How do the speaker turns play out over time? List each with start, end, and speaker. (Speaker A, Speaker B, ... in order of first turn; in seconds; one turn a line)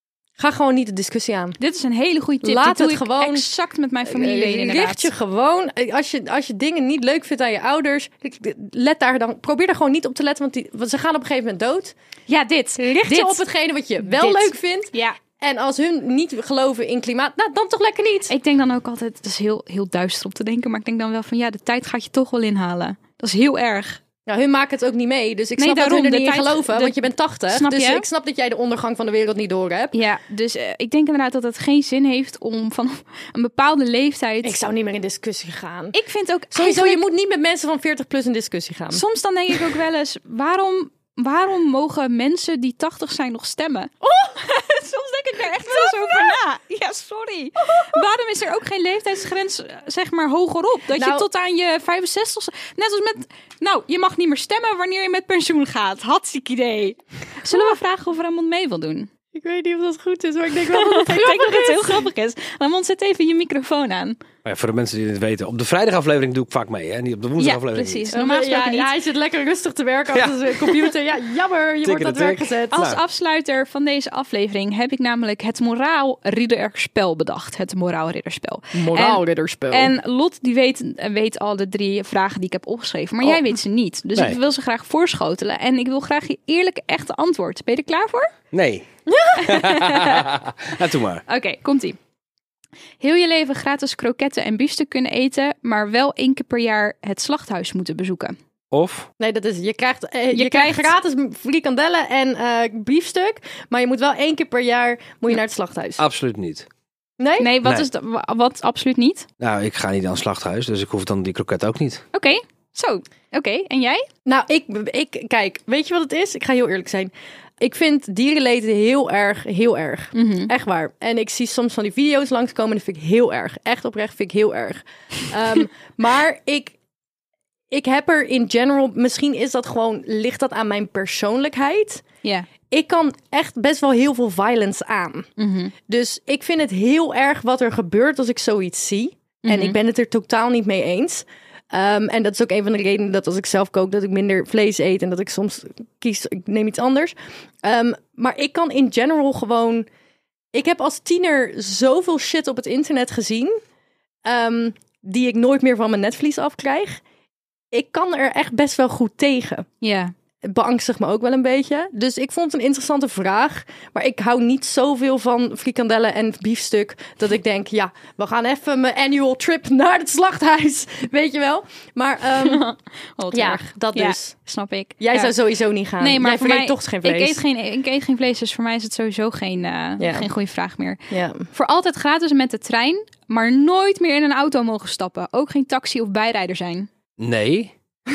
Speaker A: 0.4-1.6
Speaker B: 1.6-5.1
Speaker A: 2.4-3.5
Speaker A: 4.1-11.9
Speaker B: 12.3-13.4
Speaker A: 12.8-18.3
Speaker B: 14.0-15.2
Speaker B: 18.3-24.0
Speaker A: 24.3-30.0
Speaker B: 25.6-28.1
Speaker B: 29.9-34.5
Speaker A: 34.4-36.0
Speaker B: 35.9-37.0
Speaker A: 36.5-39.5
Speaker B: 38.9-59.1
Speaker A: 44.0-44.4
Speaker A: 45.6-46.4
Speaker A: 47.6-48.0
Speaker A: 51.0-51.3
Speaker A: 59.3-62.1
Speaker B: 60.7-64.2
Speaker C: 64.5-68.1
Speaker B: 67.4-68.9
Speaker A: 68.1-73.0
Speaker C: 70.1-70.8
Speaker C: 71.8-73.0
Speaker B: 72.7-88.3
Speaker A: 78.7-79.9
Speaker A: 83.2-83.5
Speaker C: 88.5-88.9
Speaker A: 89.1-89.6
Speaker C: 89.4-91.2
Speaker B: 89.4-90.2
Speaker B: 91.3-92.0
Speaker B: 93.0-98.4
Speaker C: 98.7-99.1
Speaker A: 99.2-106.0
Speaker B: 100.3-100.9
Speaker C: 106.0-106.7
Speaker A: 107.2-107.5
Speaker B: 107.4-109.3
Speaker C: 107.6-107.9
Speaker C: 109.4-112.0
Speaker B: 112.1-114.0
Speaker A: 114.3-126.8
Speaker B: 120.2-120.5
Speaker A: 127.7-132.0
Speaker A: 132.7-135.3
Speaker B: 135.4-135.7
Speaker A: 135.9-149.9
Speaker B: 139.4-139.8
Speaker A: 150.5-153.6
Speaker A: 154.2-157.0
Speaker A: 157.7-159.7
Speaker B: 159.8-160.1
Speaker A: 160.4-172.7
Speaker B: 172.4-175.3
Speaker A: 173.3-174.3
Speaker A: 175.0-177.4
Speaker B: 176.0-181.0
Speaker A: 180.0-180.3
Speaker A: 181.1-181.5
Speaker B: 181.5-186.9
Speaker C: 187.2-187.8